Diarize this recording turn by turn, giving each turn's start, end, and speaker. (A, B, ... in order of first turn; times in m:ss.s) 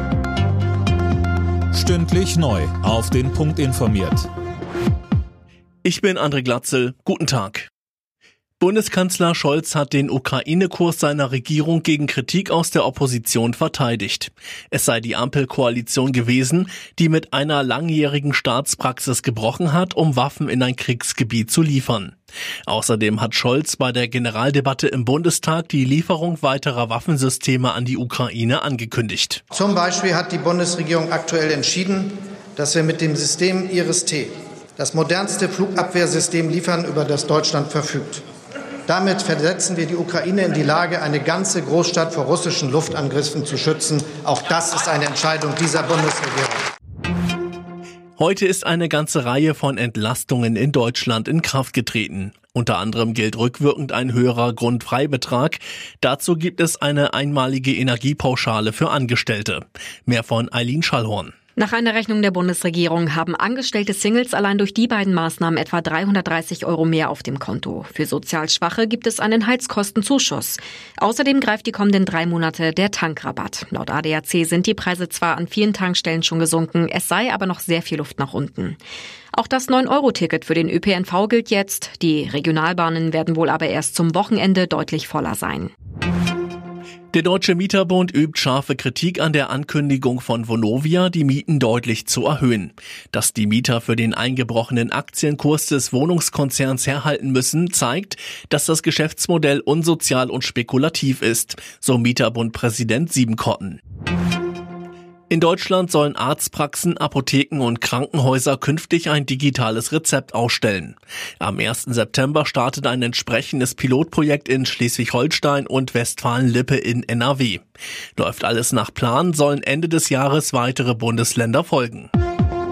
0:01.7-0:04.3 A
0:05.8-0:07.7 B
0:08.6-0:22.2 B
0:22.7-0:29.4 B
0:29.5-0:38.2 C
0:38.9-0:46.6 C
0:48.2-1:01.3 B
1:01.6-1:18.8 D
1:19.3-1:25.7 D
1:27.1-1:43.8 B
1:45.3-1:57.6 B
1:58.2-2:02.1 B